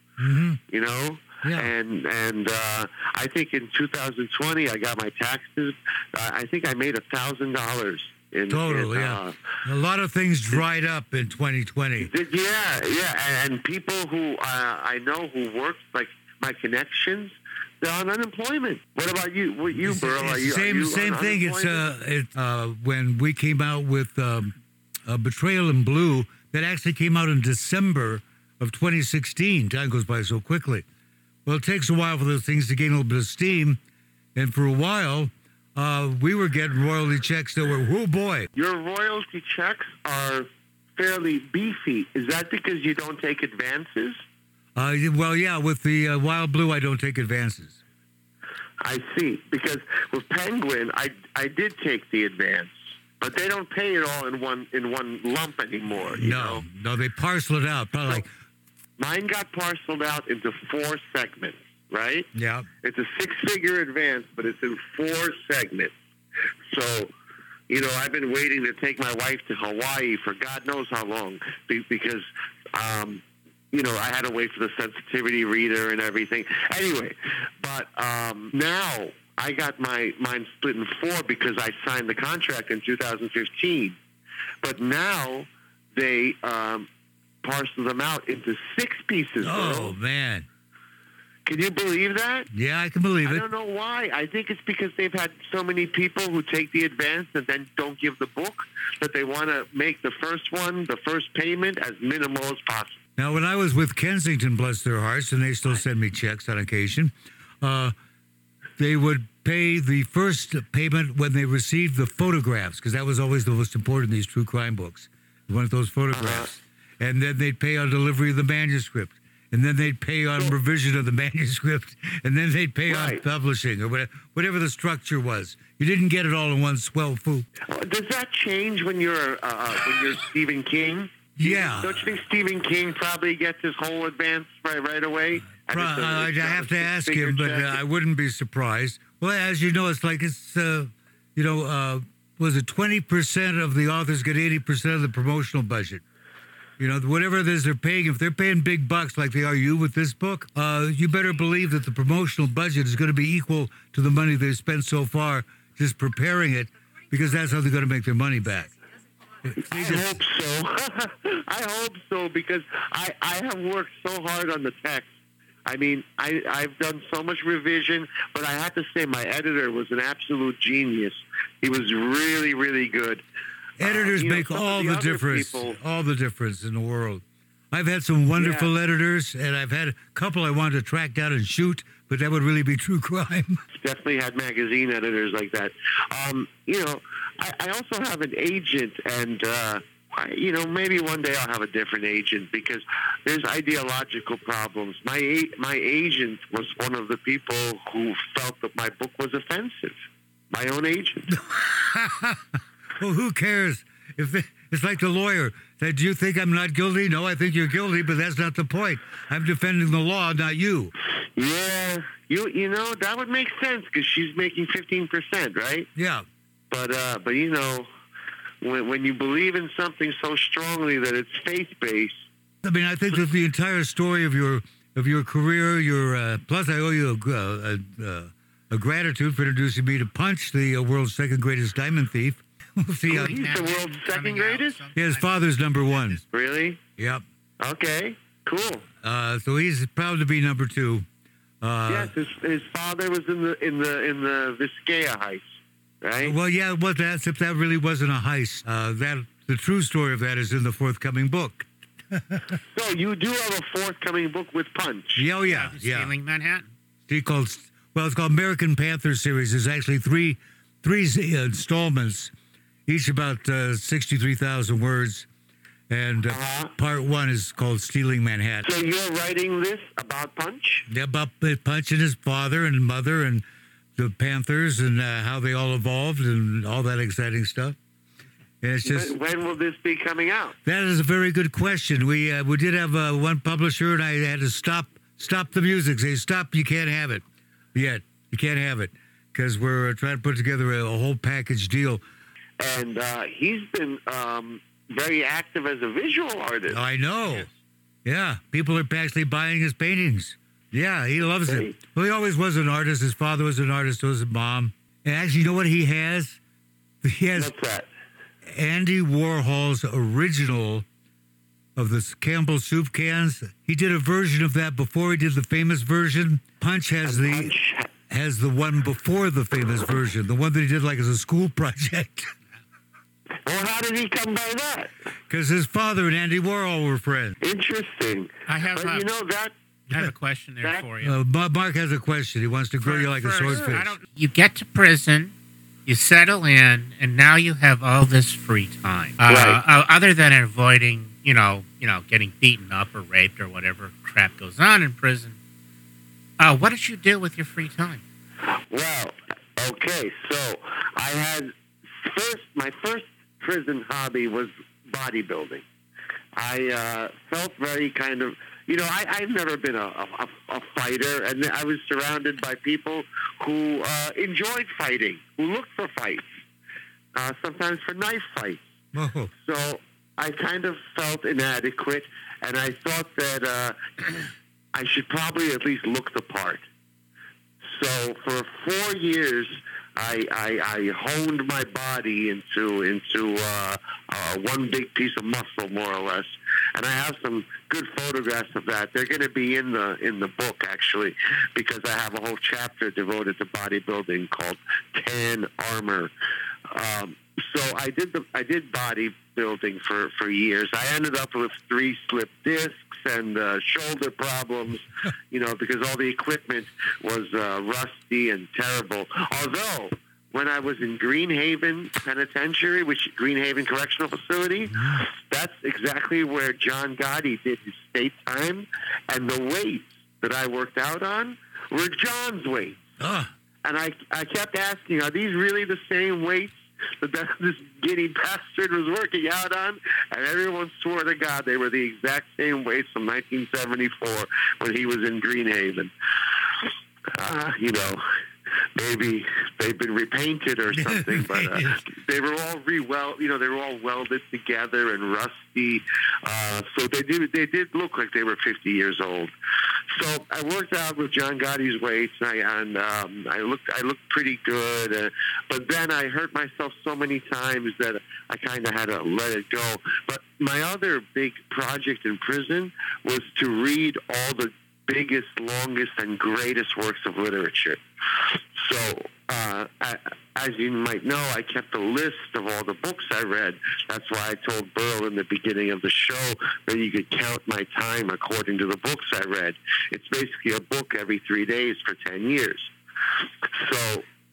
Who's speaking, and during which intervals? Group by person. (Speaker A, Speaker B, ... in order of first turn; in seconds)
Speaker A: 0.2-0.6, 1.4-1.7, 8.5-12.1, 19.8-30.8, 31.4-33.8, 34.3-38.5, 44.8-47.8, 56.1-58.3, 62.3-62.7, 89.4-90.5, 92.5-93.4, 103.2-107.9, 108.8-127.5, 131.4-132.0, 135.6-146.0, 146.8-158.8, 159.4-160.1, 173.8-183.6, 201.5-202.4, 203.0-210.9, 215.9-216.2, 222.6-233.4, 234.9-236.2, 237.0-237.2, 239.0-241.1, 241.6-242.1, 246.2-252.5, 255.2-256.1, 257.1-262.3, 262.9-265.3, 265.9-268.6, 270.9-273.4, 273.9-277.8, 278.6-279.1, 280.6-287.2, 287.7-292.0, 296.7-297.5, 298.0-306.4, 307.0-307.5, 308.5-310.8, 311.8-317.5, 318.1-322.3, 325.3-327.4, 331.0-333.9, 368.9-369.3, 423.0-423.3, 440.8-441.8
Speaker B: 0.7-9.4, 12.0-21.9, 38.5-44.2, 48.8-56.6, 59.0-62.3, 62.8-65.9, 66.7-67.1, 67.7-84.0, 84.6-86.9, 87.4-89.9, 91.5-92.5, 93.2-103.0, 116.1-116.5, 122.9-123.2, 127.7-137.8, 159.6-165.1, 165.7-173.2, 173.8-175.7, 178.3-178.7, 183.7-200.0, 200.5-201.4, 211.3-215.9, 216.7-217.9, 218.6-222.2, 233.1-234.8, 236.3-236.8, 237.6-238.9, 241.9-245.5, 246.0-246.3, 252.7-255.2, 266.3-266.7, 268.6-270.9, 278.8-280.6, 292.6-296.8, 301.4-301.8, 307.3-307.9, 317.0-317.9, 323.4-324.9, 327.4-329.5, 330.6-330.9, 339.2-339.6, 348.7-355.6, 356.4-366.4, 367.1-368.6, 369.3-376.6, 377.6-396.1, 396.7-422.8, 423.6-435.9, 437.1-438.0, 438.8-449.3, 449.9-467.8, 468.3-482.7, 483.4-484.1
Speaker C: 233.1-236.2, 255.4-256.7, 328.5-329.1, 329.9-331.2, 332.8-335.3, 335.9-345.4, 346.4-348.0